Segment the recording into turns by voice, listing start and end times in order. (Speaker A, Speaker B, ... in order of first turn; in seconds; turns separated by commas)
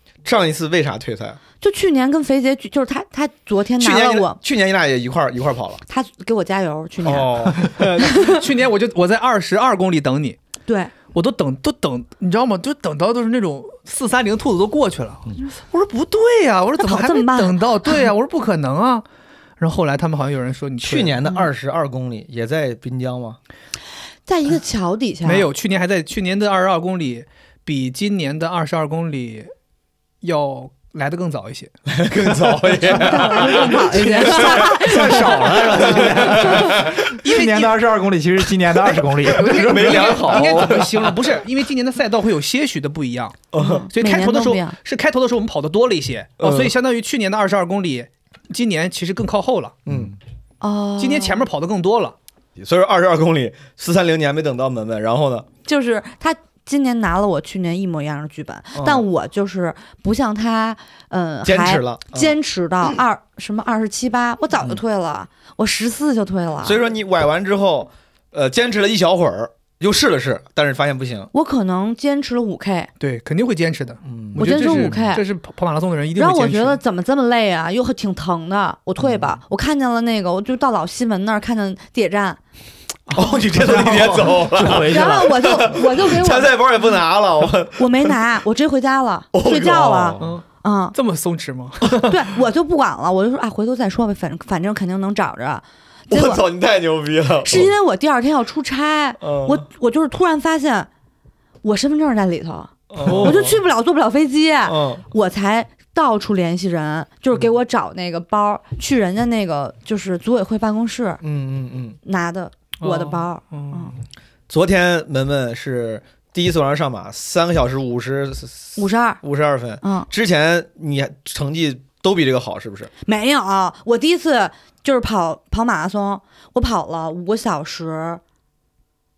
Speaker A: 0.2-1.4, Speaker B: 1.6-4.4, Speaker A: 3.8-5.8, Speaker B: 5.9-8.4, Speaker A: 7.0-7.8, Speaker C: 7.6-10.4, Speaker B: 10.7-10.9, Speaker C: 11.1-19.0, Speaker B: 16.8-17.6, Speaker C: 19.6-21.2, Speaker A: 20.8-23.4, Speaker B: 24.2-25.5, Speaker C: 25.2-29.5, Speaker C: 30.2-31.7, Speaker A: 31.9-37.1, Speaker B: 32.8-36.0, Speaker C: 34.0-34.5, Speaker D: 34.3-40.8, Speaker C: 36.5-37.8, Speaker A: 38.8-41.3, Speaker C: 39.2-49.8, Speaker A: 43.5-43.9, Speaker B: 43.5-44.8, Speaker A: 46.4-46.7, Speaker A: 49.9-50.1, Speaker B: 50.6-51.4, Speaker C: 51.0-52.1, Speaker A: 52.6-55.5, Speaker B: 55.6-66.8, Speaker A: 58.7-59.0, Speaker A: 61.4-62.4, Speaker A: 66.6-71.3, Speaker B: 71.3-72.9, Speaker C: 73.0-76.8, Speaker A: 74.0-74.7, Speaker B: 74.3-75.2, Speaker B: 76.1-82.4, Speaker A: 79.0-79.3, Speaker C: 83.1-83.8, Speaker A: 83.1-88.2, Speaker D: 83.6-85.5, Speaker B: 84.7-86.5, Speaker B: 87.8-91.0, Speaker A: 89.3-90.3, Speaker C: 90.2-92.2, Speaker B: 92.0-96.4, Speaker A: 96.1-97.7, Speaker B: 97.4-100.9, Speaker A: 99.2-99.6, Speaker B: 101.6-111.2, Speaker A: 102.9-103.6, Speaker C: 103.0-103.4, Speaker A: 104.6-105.0, Speaker A: 111.2-112.0, Speaker B: 112.0-113.9, Speaker C: 112.8-114.0, Speaker A: 114.5-122.9, Speaker B: 118.8-119.2, Speaker B: 119.8-120.1, Speaker B: 123.0-128.2